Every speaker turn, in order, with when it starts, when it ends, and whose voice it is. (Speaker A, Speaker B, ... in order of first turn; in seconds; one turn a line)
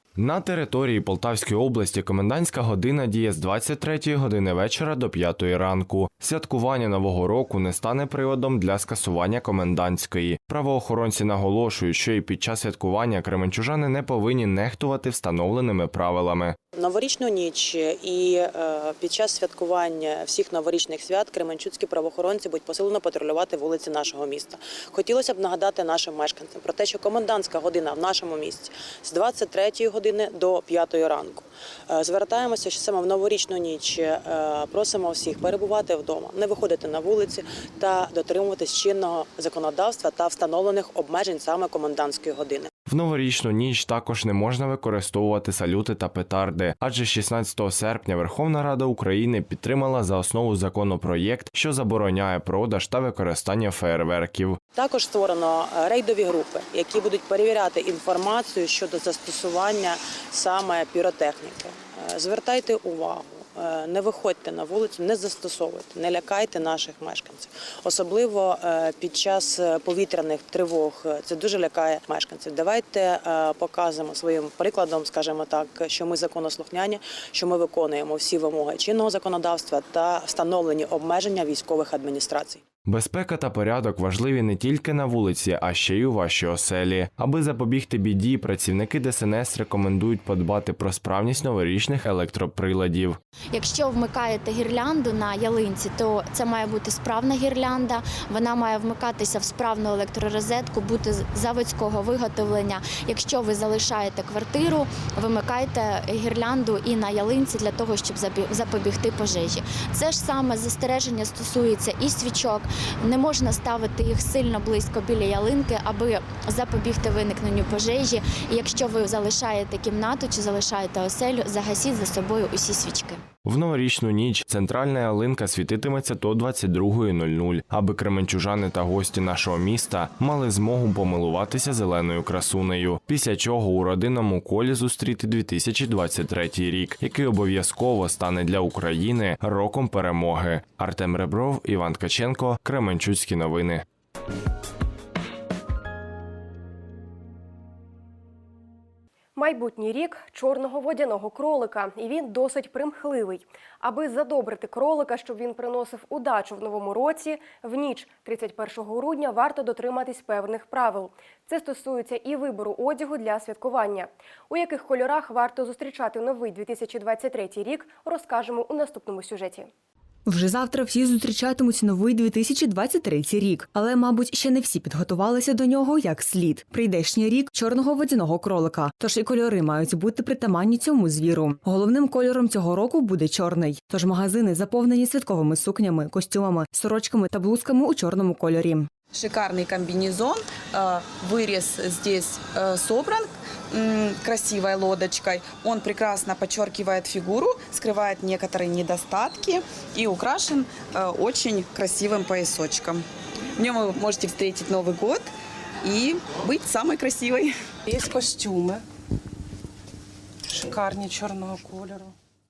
Speaker A: 0.2-16.6
Speaker B: 16.7-42.7
Speaker A: 42.9-54.6
Speaker B: 54.7-82.6
Speaker A: 82.8-93.2
Speaker C: 93.5-123.2
Speaker A: 123.4-143.8
Speaker D: 149.3-169.7
Speaker E: 170.2-188.9
Speaker F: 189.1-205.3
Speaker F: 205.8-207.5
Speaker G: 207.9-208.8
Speaker G: 210.5-212.1